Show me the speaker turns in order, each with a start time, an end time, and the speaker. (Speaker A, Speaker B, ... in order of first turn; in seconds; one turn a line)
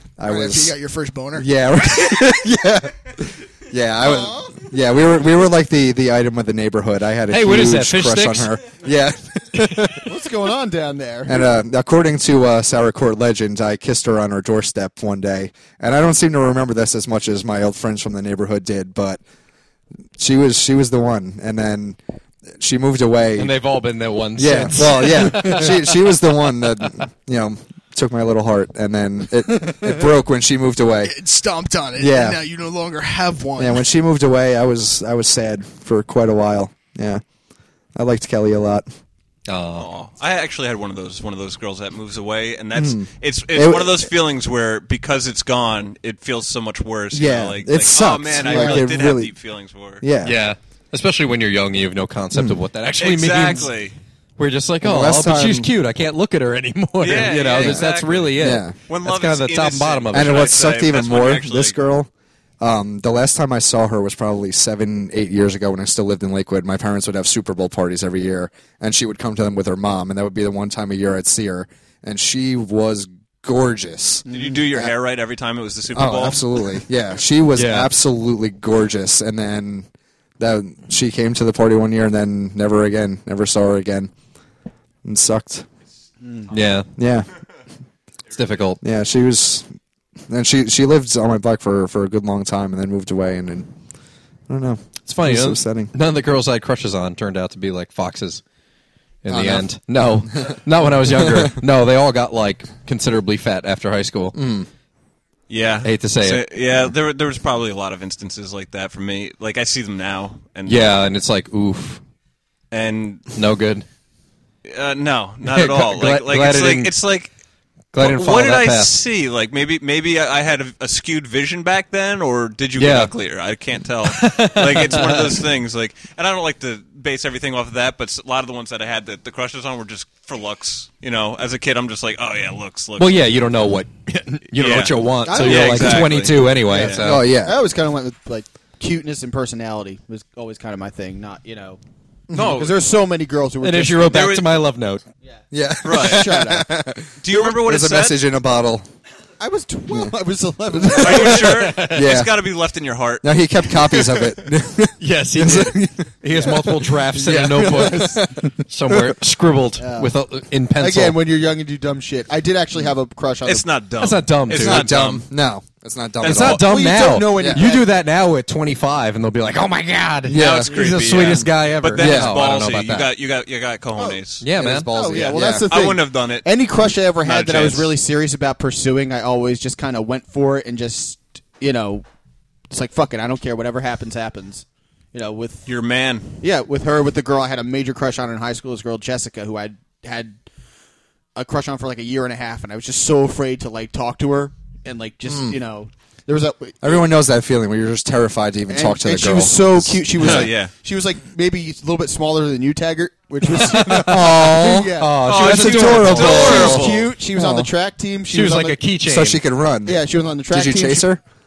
Speaker A: 0.2-0.8
Speaker B: 0.3-2.4
Speaker A: 1.4-10.2
Speaker C: 7.3-8.5
Speaker D: 10.0-11.5
Speaker A: 11.3-19.2
Speaker A: 20.2-22.0
Speaker A: 22.6-23.6
Speaker C: 23.4-26.0
Speaker A: 24.4-31.1
Speaker B: 31.0-33.8
Speaker A: 32.0-32.4
Speaker A: 33.6-37.2
Speaker A: 38.0-38.9
Speaker C: 39.5-39.9
Speaker E: 39.7-50.0
Speaker A: 42.8-44.1
Speaker A: 47.1-49.3
Speaker D: 48.4-48.8
Speaker A: 50.0-50.4
Speaker C: 50.2-53.7
Speaker A: 52.3-52.6
Speaker E: 53.0-54.0
Speaker C: 54.4-60.5
Speaker A: 54.8-55.7
Speaker E: 57.0-61.8
Speaker A: 57.1-58.8
Speaker A: 60.1-74.9
Speaker E: 74.3-76.8
Speaker D: 74.3-74.5
Speaker A: 75.9-79.9
Speaker C: 77.6-77.9
Speaker A: 80.4-84.1
Speaker A: 85.0-85.7
Speaker C: 86.5-86.9
Speaker A: 87.0-87.3
Speaker C: 88.3-88.8
Speaker A: 88.8-89.7
Speaker A: 90.3-93.7
Speaker A: 94.5-95.9
Speaker C: 95.1-98.4
Speaker C: 99.2-104.4
Speaker A: 99.3-99.7
Speaker A: 101.1-101.6
Speaker A: 104.3-104.7
Speaker E: 105.5-111.0
Speaker C: 105.8-106.5
Speaker C: 110.7-112.0
Speaker E: 112.7-113.3
Speaker C: 113.3-113.9
Speaker E: 114.7-117.3
Speaker C: 115.4-116.9
Speaker C: 117.9-119.0
Speaker E: 118.0-133.3
Speaker C: 122.8-123.1
Speaker C: 124.0-125.5
Speaker C: 133.0-137.2
Speaker E: 134.6-137.2
Speaker D: 135.2-136.2
Speaker A: 136.8-137.6
Speaker D: 137.3-141.8
Speaker A: 142.3-142.6
Speaker E: 142.3-142.8
Speaker D: 142.4-144.4
Speaker C: 143.6-145.1
Speaker E: 144.1-144.6
Speaker D: 145.2-146.8
Speaker A: 145.5-148.9
Speaker E: 145.8-146.4
Speaker E: 147.2-148.2
Speaker D: 149.4-151.7
Speaker A: 150.7-152.5
Speaker E: 150.9-153.3
Speaker C: 151.4-152.2
Speaker A: 153.2-159.2
Speaker C: 155.0-161.2
Speaker D: 159.8-160.1
Speaker D: 160.8-163.7
Speaker E: 163.4-165.2
Speaker C: 164.0-164.9
Speaker A: 164.5-166.7
Speaker E: 166.2-166.6
Speaker C: 166.2-173.1
Speaker D: 166.5-167.9
Speaker A: 167.3-167.6
Speaker A: 170.3-170.8
Speaker E: 170.3-174.4
Speaker A: 172.0-172.4
Speaker D: 174.0-182.1
Speaker C: 174.4-174.9
Speaker A: 174.6-175.7
Speaker E: 175.1-176.5
Speaker E: 177.2-178.0
Speaker D: 182.7-185.7
Speaker E: 185.7-186.3
Speaker D: 186.4-190.4
Speaker D: 191.4-197.1
Speaker A: 195.3-195.6
Speaker A: 196.8-200.4
Speaker D: 198.7-205.2
Speaker E: 200.2-200.7
Speaker A: 203.7-207.7
Speaker C: 204.9-207.1
Speaker E: 205.2-207.1
Speaker D: 206.0-208.8
Speaker C: 208.3-209.4
Speaker A: 209.1-211.2
Speaker D: 209.9-211.1